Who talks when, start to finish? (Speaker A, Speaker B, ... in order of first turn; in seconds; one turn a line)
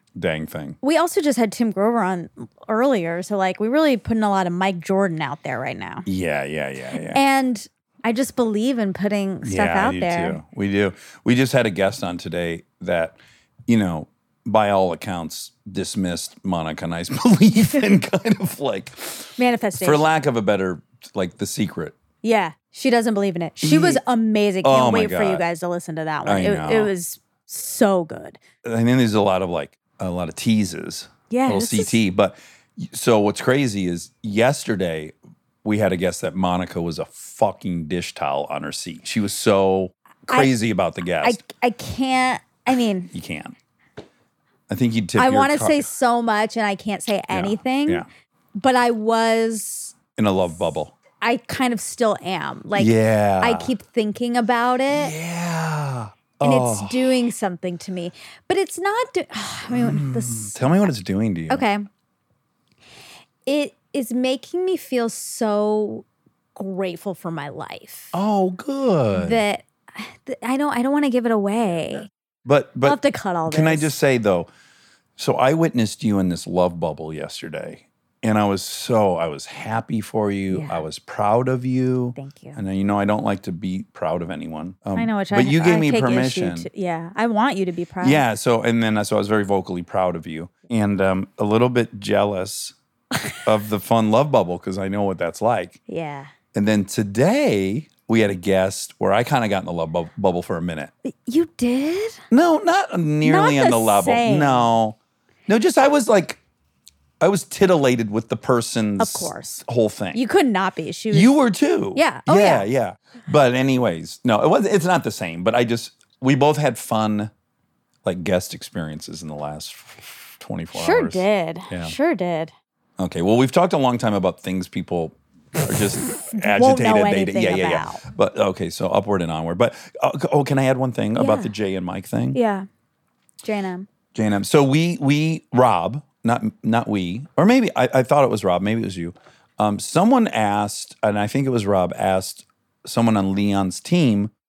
Speaker A: 0.1-0.8
Speaker B: 0.8-6.0
Speaker A: 6.0-7.2
Speaker B: 7.1-10.4
Speaker A: 9.4-22.0
Speaker B: 19.4-20.1
Speaker B: 22.2-28.4
Speaker A: 23.6-24.0
Speaker A: 24.6-25.4
Speaker A: 26.2-26.9
Speaker A: 28.6-35.1
Speaker B: 31.3-32.0
Speaker A: 35.6-41.4
Speaker B: 40.3-40.5
Speaker B: 41.2-43.1
Speaker A: 43.1-43.5
Speaker A: 44.7-45.9
Speaker B: 45.2-48.0
Speaker A: 47.3-48.0
Speaker B: 48.5-50.0
Speaker A: 50.1-50.9
Speaker B: 51.2-55.1
Speaker A: 52.8-53.7
Speaker A: 54.9-57.1
Speaker B: 56.4-60.6
Speaker A: 59.7-61.6
Speaker B: 61.5-61.9
Speaker B: 63.5-66.0
Speaker B: 66.5-68.1
Speaker A: 68.1-69.4
Speaker B: 69.1-72.1
Speaker A: 72.4-74.5
Speaker B: 72.8-74.0
Speaker A: 75.2-86.7
Speaker B: 80.5-80.8
Speaker B: 82.2-82.6
Speaker B: 84.9-88.2
Speaker A: 88.0-92.7
Speaker A: 93.4-95.8
Speaker B: 95.9-96.3
Speaker A: 96.5-100.9
Speaker B: 101.0-102.2
Speaker A: 102.3-105.0
Speaker B: 103.2-104.7
Speaker A: 105.5-106.4
Speaker A: 107.2-110.2
Speaker B: 109.0-111.3
Speaker A: 111.1-117.3
Speaker B: 111.9-112.7
Speaker A: 118.0-121.9
Speaker B: 120.7-122.5
Speaker A: 123.0-132.4
Speaker B: 126.3-128.0
Speaker B: 131.2-131.5
Speaker B: 132.3-132.7
Speaker B: 133.4-133.9
Speaker A: 134.1-144.3